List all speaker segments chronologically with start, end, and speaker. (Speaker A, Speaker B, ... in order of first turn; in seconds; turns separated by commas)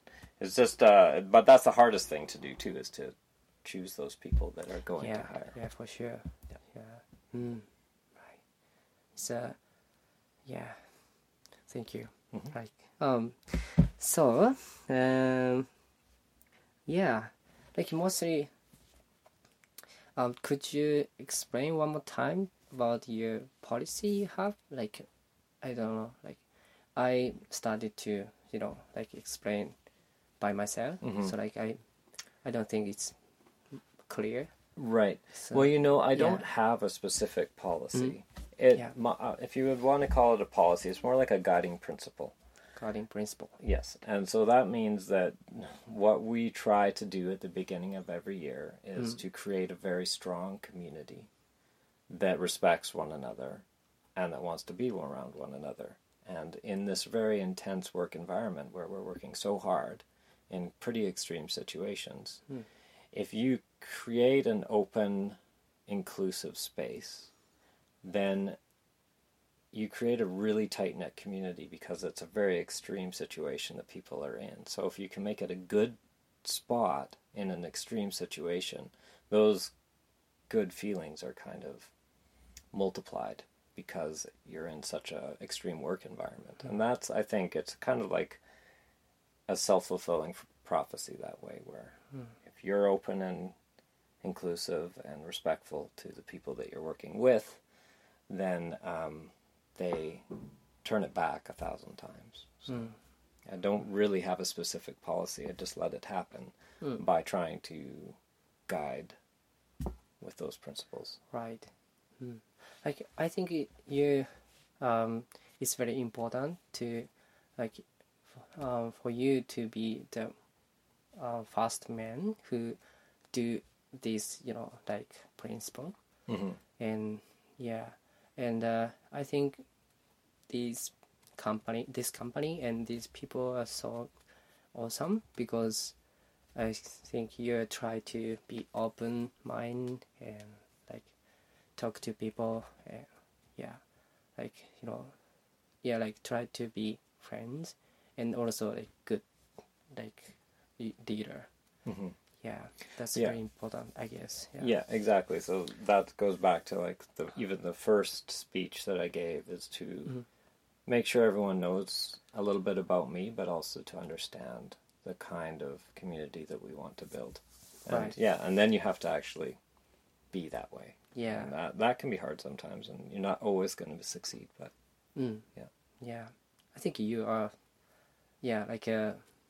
Speaker A: 0.4-5.6, Speaker B: 5.0-7.6, Speaker B: 9.1-9.6, Speaker B: 10.4-11.0, Speaker B: 11.7-15.7, Speaker B: 16.9-18.5, Speaker B: 20.1-25.0, Speaker B: 25.6-26.4, Speaker B: 26.9-29.7, Speaker B: 30.4-31.8, Speaker A: 31.0-31.3, Speaker B: 32.4-33.2, Speaker B: 33.7-34.5, Speaker A: 34.8-42.3, Speaker B: 35.4-36.4, Speaker B: 42.8-43.6, Speaker A: 43.6-51.3, Speaker A: 52.1-62.4, Speaker A: 63.1-67.3, Speaker A: 68.0-68.6, Speaker A: 69.7-79.7, Speaker A: 80.5-81.9, Speaker A: 82.7-88.4, Speaker A: 89.5-91.9, Speaker A: 92.5-93.5, Speaker A: 94.2-97.6, Speaker A: 98.3-100.2, Speaker A: 100.8-102.9, Speaker B: 102.7-102.9, Speaker A: 103.5-108.2, Speaker A: 108.7-109.1, Speaker A: 110.2-111.2, Speaker B: 111.3-120.3, Speaker B: 121.1-122.8, Speaker B: 123.3-125.9, Speaker A: 126.3-126.6, Speaker B: 126.8-129.6, Speaker B: 130.5-134.1, Speaker B: 134.7-135.9, Speaker B: 136.5-141.1, Speaker B: 141.8-143.8, Speaker B: 144.3-145.1, Speaker B: 145.8-149.2, Speaker B: 149.9-151.5, Speaker A: 151.8-152.1, Speaker B: 152.4-154.7, Speaker A: 154.6-160.2, Speaker A: 160.8-169.6, Speaker B: 167.9-168.2, Speaker A: 170.3-174.7, Speaker B: 171.1-171.5, Speaker B: 175.2-175.4, Speaker B: 176.0-177.5, Speaker B: 178.4-179.2